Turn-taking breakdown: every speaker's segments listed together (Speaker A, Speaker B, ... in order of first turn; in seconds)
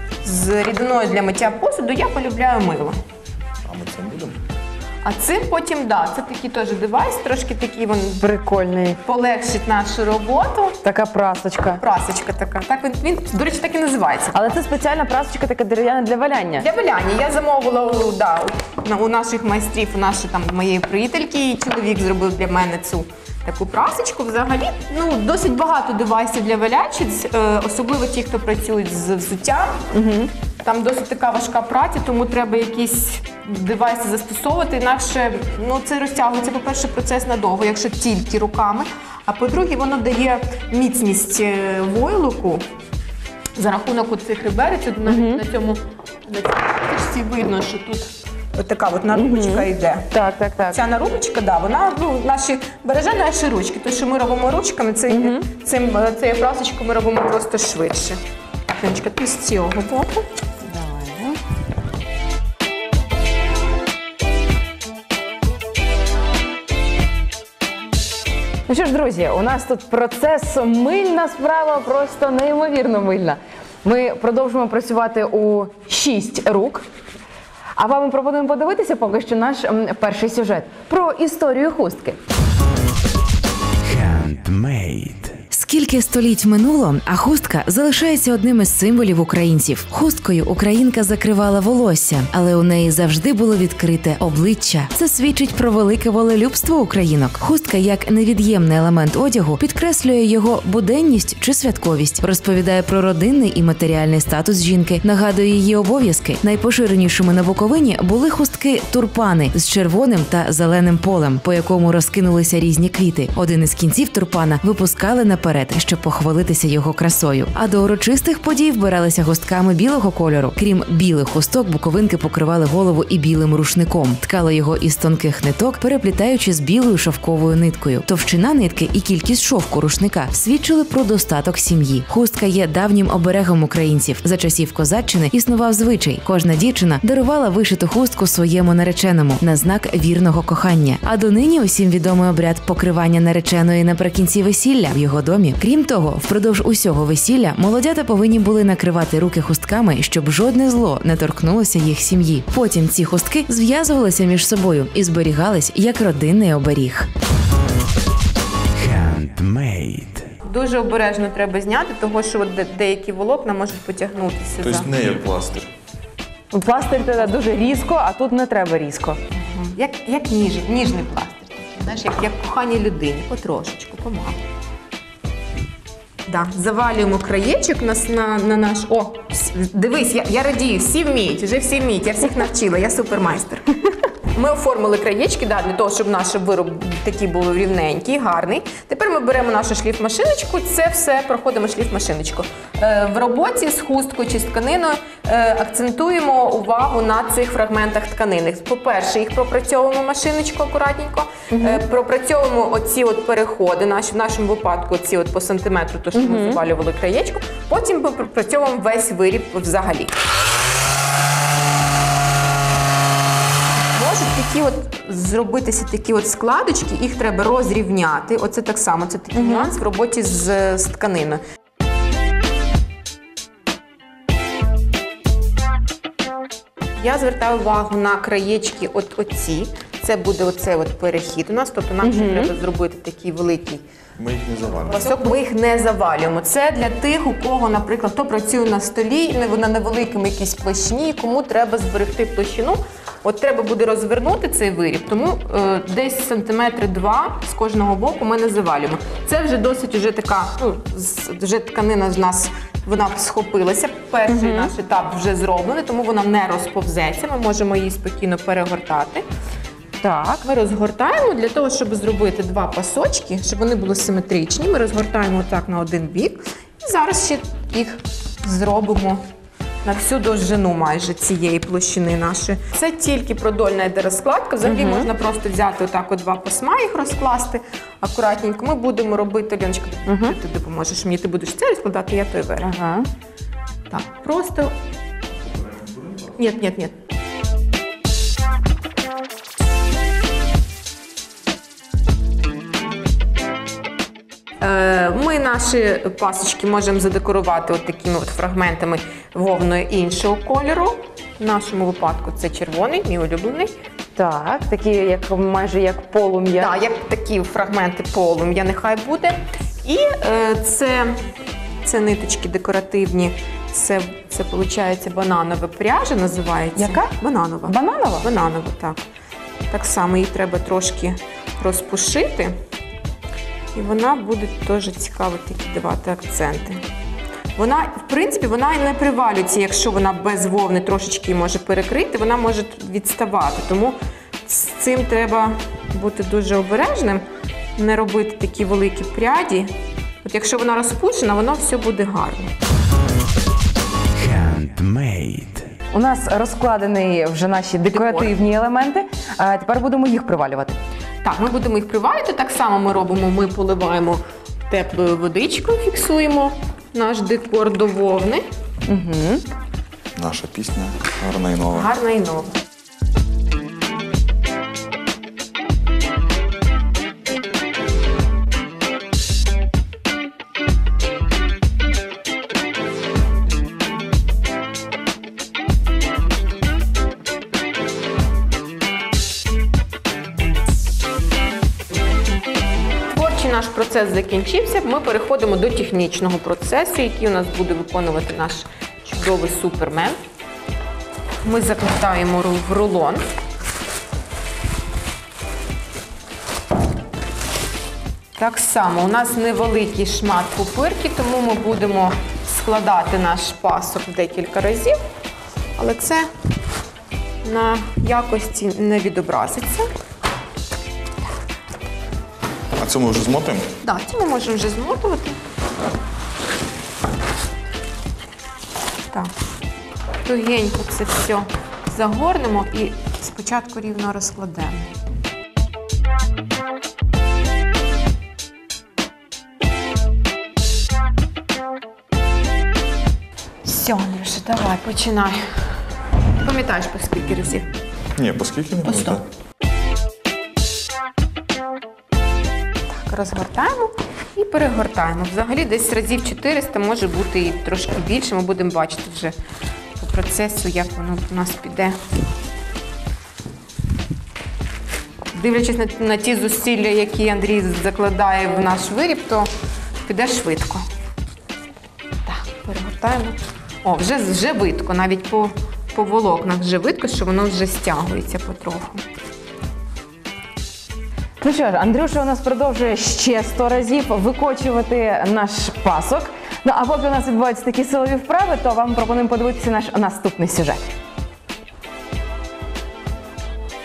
Speaker A: 0.2-3.0, 5.0-8.3, 9.0-10.8, 11.8-14.5, 16.6-29.9, 30.6-42.6, 43.6-50.1, 50.7-58.2, 58.7-60.3, 160.4-164.9, 169.4-174.4, 176.3-210.1, 213.8-221.4, 227.0-233.8, 234.9-259.2, 260.4-269.2, 269.8-282.7, 283.9-284.7, 286.4-287.0, 294.6-303.8, 306.6-311.2, 311.8-319.0, 319.7-322.6, 323.7-326.8, 327.6-337.2, 337.8-339.7, 340.2-342.5, 347.9-348.3, 351.2-358.4, 361.7-362.5, 383.1-390.2, 391.4-393.2, 398.4-405.0, 405.8-406.3, 407.4-409.9, 413.8-415.4, 420.2-424.9, 433.6-435.8, 436.4-437.7, 438.9-439.2, 442.9-449.4, 450.0-452.0, 455.3-459.5, 460.1-460.9, 462.3-469.0
Speaker B: 3.6-4.4, 164.6-165.7, 234.2-235.2, 285.4-286.3, 360.2-361.9, 412.8-413.7, 438.2-439.2
Speaker C: 8.2-9.0, 10.8-11.8, 14.3-16.7, 29.9-30.3, 45.1-45.4, 49.1-50.8, 55.1-55.5, 60.6-61.4, 68.7-76.8, 77.8-82.2, 166.5-169.2, 201.5-201.8, 206.1-206.6, 219.3-219.7, 232.0-232.5, 254.3-254.7, 260.0-260.4, 274.6-275.1, 280.1-280.4, 282.6-283.1, 304.2-306.8, 316.8-317.1, 317.7-318.3, 345.9-350.8, 358.9-359.4, 471.4-480.8
Speaker D: 83.8-85.4, 158.7-160.3, 344.1-345.7
Speaker E: 85.5-157.1